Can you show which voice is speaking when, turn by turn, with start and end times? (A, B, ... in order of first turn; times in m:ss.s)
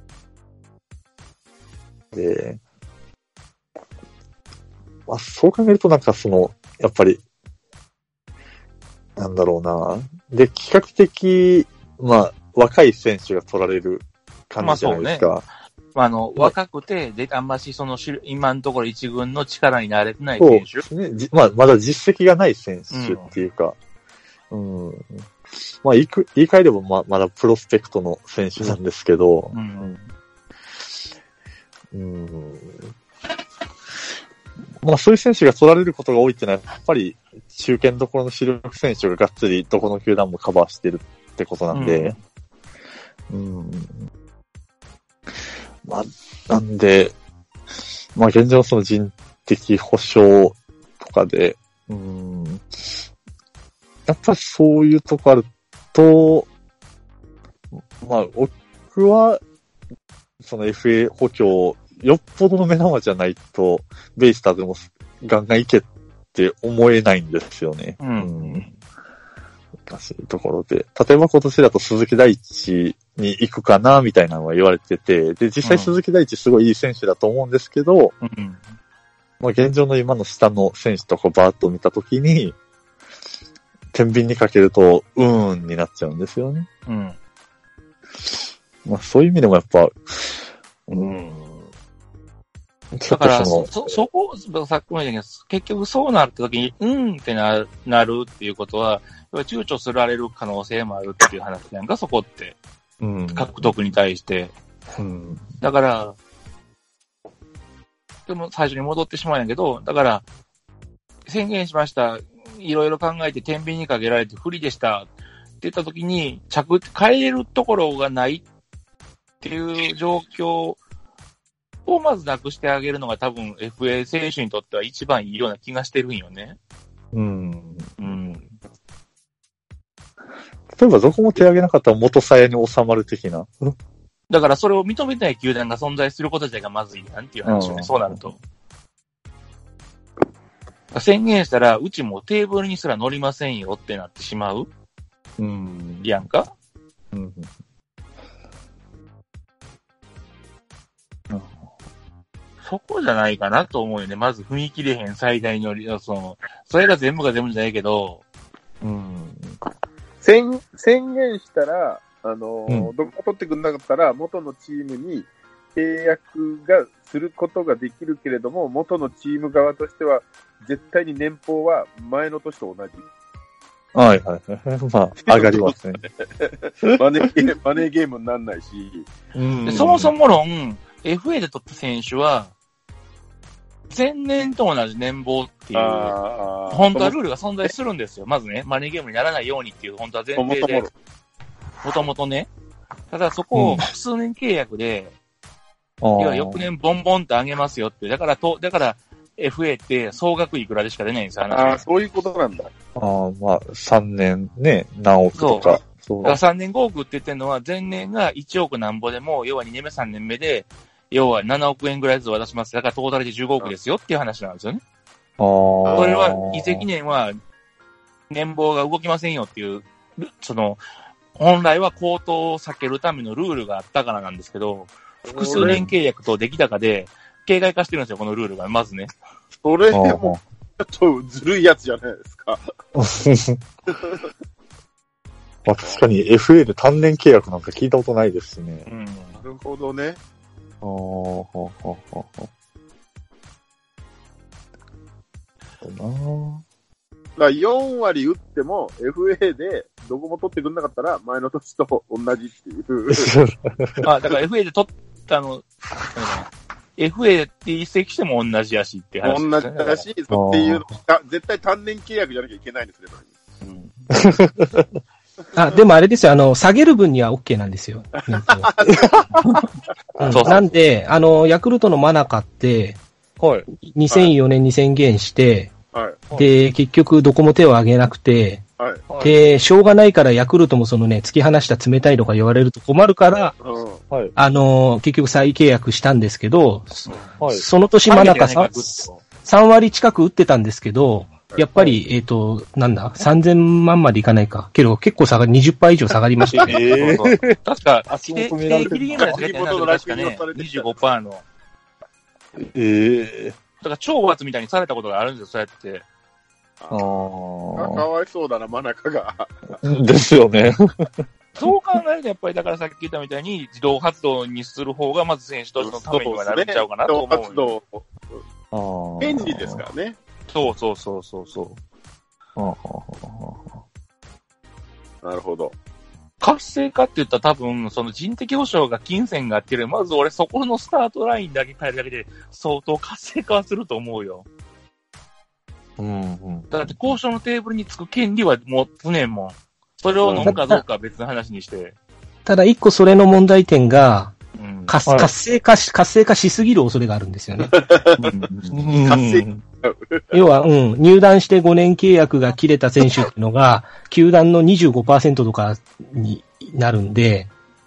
0:02.1-0:02.6 A
0:05.1-0:07.2 A
0:09.2-0:15.4 A
0:14.6-0:15.3 B
0:15.9-0:20.8 B
0:20.4-0:23.8 A
0:22.9-0:23.3 B
0:24.5-0:30.0 A
0:29.5-0:30.0 B
0:31.9-0:32.8 A
0:34.8-0:42.2 A
0:41.7-0:42.2 B
0:43.3-0:43.9 A
0:45.8-0:47.1 A
0:48.1-0:53.0 A
0:54.0-0:56.5 A
0:57.8-0:59.4 A
1:00.4-1:08.7 A
1:08.0-1:08.8 B
1:09.9-1:18.1 A
1:15.6-1:15.9 B
1:18.2-1:18.6 B
1:19.4-1:22.6 A
1:23.9-1:26.7 A
1:26.8-1:27.2 B
1:28.2-1:31.6 A
1:32.9-1:33.9 A
1:33.1-1:42.6 B
1:43.0-1:43.7 A
1:43.3-1:44.5 B
1:45.0-1:45.4 A
1:45.6-1:46.1 B
1:48.3-1:50.2 B
1:51.3-1:55.1 B
1:55.6-1:58.4 B
1:59.4-2:00.8 B
2:01.8-2:06.6 B
2:07.1-2:08.2 A
2:08.0-2:08.4 B
2:10.7-2:13.7 A
2:14.3-2:18.4 B
2:17.4-2:18.3 A
2:20.9-2:24.7 B
2:25.4-2:26.2 A
2:26.0-2:26.5 B
2:27.1-2:27.5 A
2:31.3-2:31.6 A
2:32.6-2:38.2 B
2:38.8-2:39.6 A
2:40.2-2:53.0 C
2:53.9-2:56.0 A
2:55.3-2:59.1 C
2:59.3-3:00.1 A
2:59.6-3:02.5 B
3:03.9-3:06.2 B
3:05.7-3:07.7 C
3:06.7-3:10.9 B
3:10.4-3:10.9 C
3:11.8-3:12.5 B
3:13.1-3:15.1 B
3:13.5-3:13.8 A
3:16.0-3:16.7 A
3:16.2-3:21.8 B
3:21.5-3:22.7 C
3:23.0-3:26.4 A
3:25.3-3:34.8 B
3:35.4-3:36.8 A
3:35.8-3:36.2 C
3:35.9-3:37.4 B
3:38.3-3:40.8 B
3:41.4-3:49.1 B
3:45.2-3:45.8 C
3:45.6-3:45.9 A
3:49.6-3:52.6 C
3:49.9-3:50.4 A
3:52.9-3:53.6 A
3:53.9-3:54.2 C
3:55.6-3:58.8 A
3:58.8-3:59.4 B
3:59.4-4:00.2 C
4:00.8-4:02.5 A
4:05.8-4:06.6 A
4:07.4-4:13.3 C
4:13.1-4:14.0 A
4:14.0-4:20.0 B
4:19.2-4:23.3 C
4:20.3-4:20.8 A
4:24.1-4:24.9 A
4:25.5-4:28.7 D
4:28.2-4:29.1 C
4:30.2-4:33.0 D
4:30.3-4:30.6 B
4:33.4-4:33.7 A
4:33.7-4:35.7 D
4:35.9-4:36.2 C
4:36.3-4:38.6 D
4:38.8-4:39.0 C
4:39.1-4:39.4 A
4:39.2-4:43.5 D
4:43.6-4:44.0 C
4:44.4-4:56.9 D
4:47.4-4:47.6 A
4:48.1-4:49.2 B
4:56.5-5:01.4 B
4:56.5-4:57.5 A
4:58.1-4:59.4 A
4:58.8-5:00.9 C
5:02.6-5:03.6 A
5:03.8-5:06.0 B
5:06.9-5:08.0 A
5:07.7-5:09.6 C
5:09.8-5:10.7 A
5:11.5-5:17.7 B
5:15.8-5:18.0 C
5:18.7-5:19.8 A
5:19.2-5:20.2 C
5:20.5-5:21.8 B
5:22.6-5:23.8 A
5:25.2-5:25.7 C
5:26.4-5:34.4 B
5:36.0-5:37.2 A
5:36.7-5:41.9 B
5:40.3-5:40.6 A
5:40.4-5:40.7 D
5:42.4-5:44.3 D
5:44.6-5:45.0 B
5:44.9-5:47.8 D
5:47.6-5:48.3 C
5:48.2-5:49.6 A
5:49.0-5:50.6 C
5:50.3-5:57.5 D